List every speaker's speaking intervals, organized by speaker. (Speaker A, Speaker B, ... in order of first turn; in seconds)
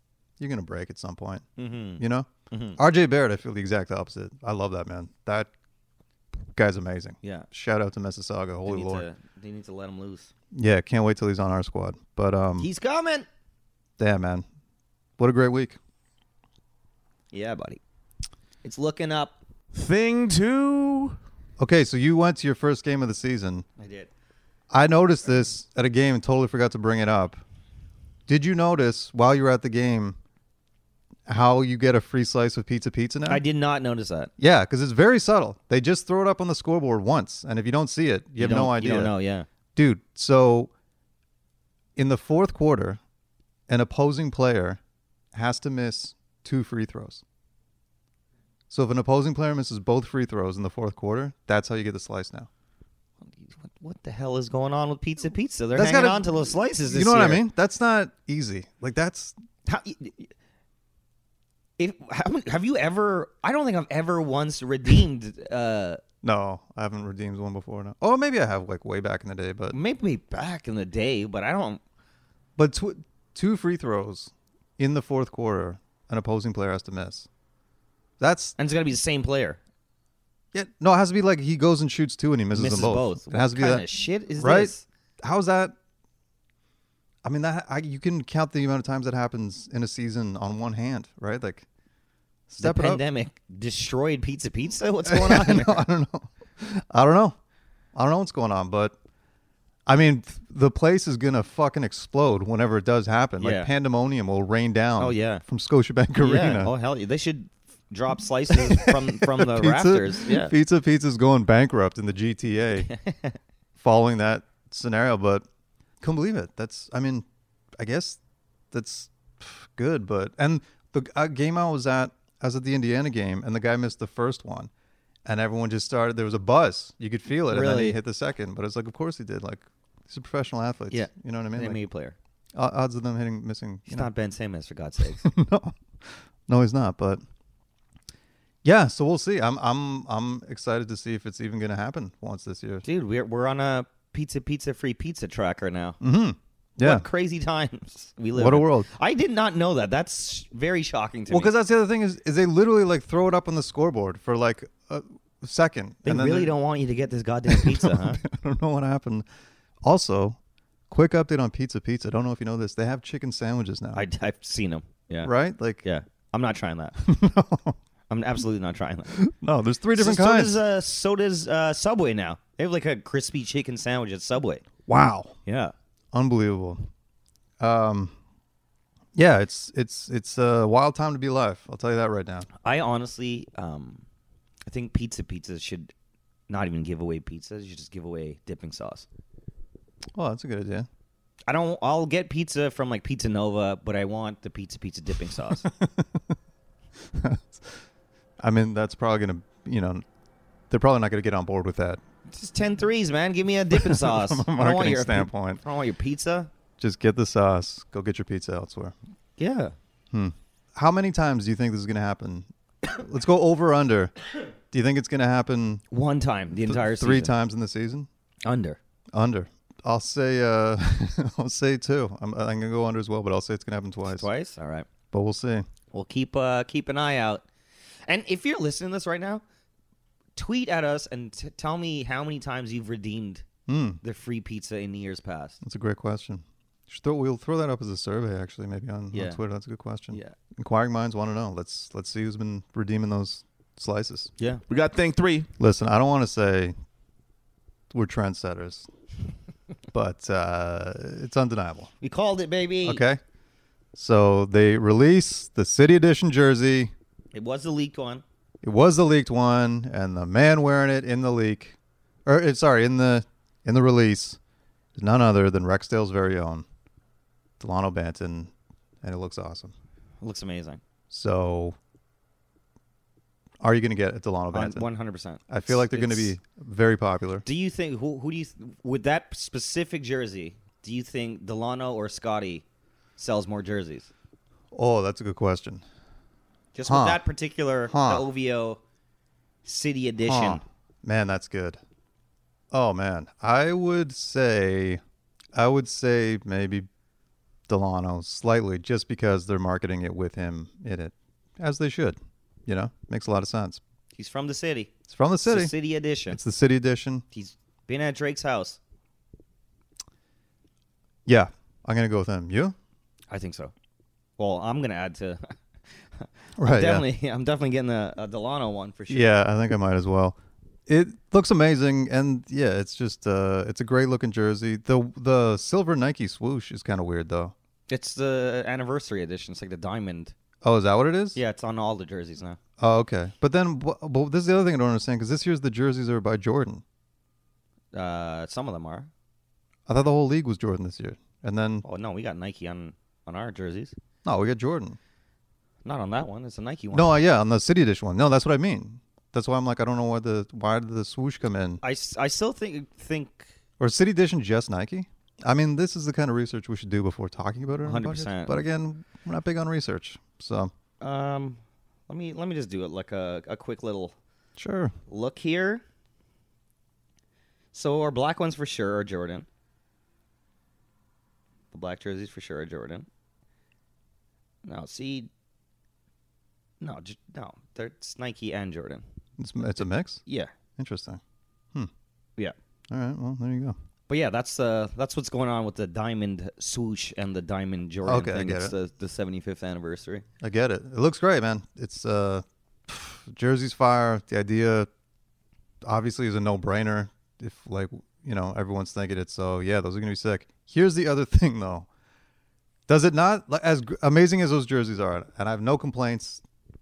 Speaker A: 0.4-1.5, 2.0-5.5, 6.5-9.1, 10.5-12.7, 14.0-14.4, 15.2-15.8, 21.6-23.7, 24.7-27.4, 28.3-30.2, 31.3-33.4, 34.4-39.1, 39.8-40.7, 42.0-43.0, 43.7-44.8, 45.3-47.2, 48.7-52.5, 55.8-59.4, 66.2-69.8, 72.6-77.3, 78.2-78.6, 80.5-83.9, 84.4-85.7, 87.2-91.7, 92.5-93.0, 95.0-97.4, 97.9-99.0, 99.9-106.7, 108.5-112.9, 113.8-115.5, 116.0-117.2, 117.8-118.2, 118.7-124.7, 125.2-131.8, 132.6-134.1, 135.2-137.2, 138.6-142.8, 146.0-147.1, 148.3-148.9, 151.3-156.5, 157.5-159.2, 159.8-160.4, 160.9-164.1, 165.2-165.8, 167.0-167.8, 169.1-170.6, 174.9-175.3, 176.1-176.9, 177.6-178.1, 179.2-182.5, 190.2-190.9, 195.6-196.3, 197.1-197.8, 198.4-200.0, 200.7-202.0, 203.7-205.6, 206.8-208.9, 210.1-214.2, 214.7-215.8, 216.6-218.1, 219.1-224.3, 225.1-225.7, 233.7-234.0, 235.6-244.3, 245.6-246.8, 247.9-248.9, 249.9-251.9, 252.8-253.2, 253.9-256.9, 258.6-264.4, 264.9-266.7, 267.6-269.7, 271.1-271.8, 273.6-274.9, 275.5-277.4, 284.7-285.8, 286.9-287.2, 287.9-288.3, 290.2-291.8, 292.7-295.0, 295.5-296.9, 297.7-303.8, 305.1-305.7, 306.3-307.2, 311.3-312.8, 316.6-317.1, 319.1-327.5, 330.6-331.4, 332.8-336.8, 339.9-341.9, 344.2-345.0, 346.9-351.8, 353.8-360.7, 364.6-364.9, 379.4-380.2, 380.8-381.2, 382.9-383.8, 388.1-388.7, 390.4-394.9, 395.8-401.9, 402.9-406.4
Speaker B: 1.6-2.8, 8.7-10.3, 12.6-13.3, 17.3-17.8, 18.6-19.4, 23.8-24.1, 33.3-34.3, 38.4-39.5, 53.2-57.4, 59.7-60.3, 61.8-66.0, 69.7-71.8, 78.6-79.6, 82.5-84.8, 92.6-95.8, 103.4-103.7, 105.0-105.4, 106.2-110.5, 112.8-113.4, 127.5-128.0, 130.9-132.2, 133.9-135.3, 142.8-146.0, 146.8-151.5, 156.0-158.2, 163.9-165.3, 165.8-167.0, 168.1-169.1, 170.0-174.7, 175.5-175.7, 182.6-184.0, 184.7-185.9, 186.5-189.1, 191.5-195.7, 202.3-206.5, 209.4-209.7, 215.9-217.3, 218.4-218.8, 224.1-224.9, 225.9-227.4, 228.1-229.4, 230.4-233.4, 234.0-235.6, 239.1-239.4, 252.0-253.0, 257.3-258.2, 270.2-270.8, 274.5-276.4, 277.4-282.6, 283.2-284.1, 286.8-288.8, 289.6-290.6, 304.1-306.4, 307.3-308.8, 313.3-313.7, 314.4-315.6, 316.2-319.3, 327.9-330.3, 331.4-332.6, 337.9-339.1, 341.9-343.9, 345.9-347.2, 351.8-353.5, 357.8-358.6, 361.0-364.1, 365.1-365.8, 367.7-369.5, 371.7-373.1, 374.6-375.3, 376.8-379.0, 380.3-380.5, 384.1-390.2
Speaker C: 19.7-21.2, 244.7-245.5